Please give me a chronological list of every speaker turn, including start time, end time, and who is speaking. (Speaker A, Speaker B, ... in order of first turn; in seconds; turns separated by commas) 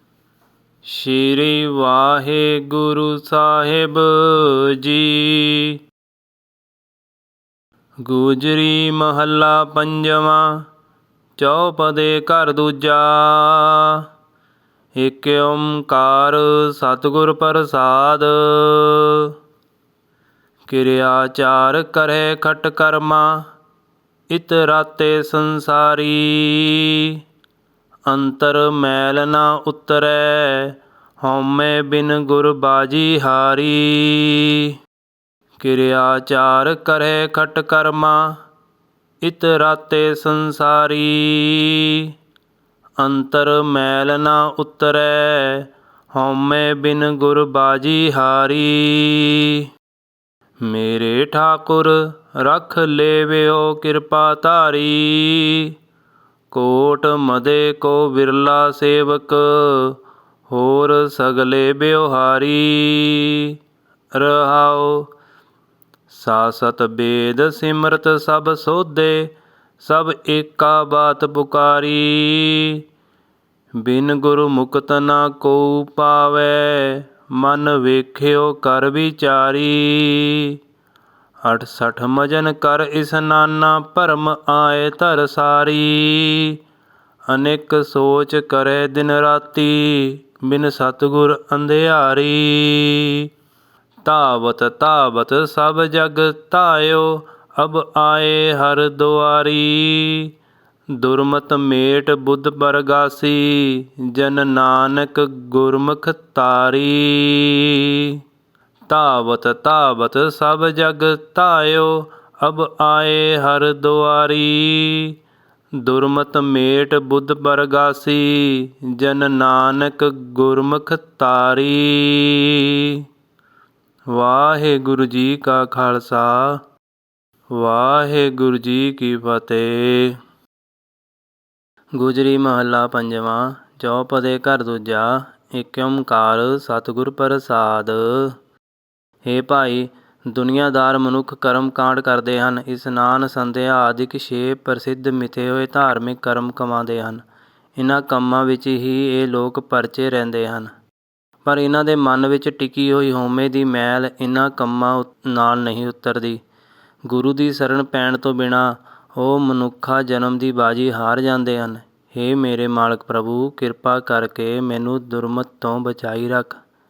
Speaker A: 0.8-5.8, Speaker A: 8.1-10.7, Speaker A: 11.4-14.0, Speaker A: 15.0-19.3, Speaker A: 20.7-23.5, Speaker A: 24.3-27.2, Speaker A: 28.1-34.7, Speaker A: 35.6-38.4, Speaker A: 39.2-42.1, Speaker A: 43.0-49.7, Speaker A: 50.6-55.7, Speaker A: 56.5-63.6, Speaker A: 64.1-65.1, Speaker A: 66.1-72.8, Speaker A: 73.8-80.6, Speaker A: 81.4-86.6, Speaker A: 87.3-93.3, Speaker A: 94.0-100.3, Speaker A: 101.0-108.2, Speaker A: 108.9-115.2, Speaker A: 115.8-123.0, Speaker A: 124.1-126.6, Speaker A: 127.5-130.2, Speaker A: 132.0-138.3, Speaker A: 139.2-147.2, Speaker A: 147.8-150.7, Speaker A: 151.4-156.4, Speaker A: 157.1-166.6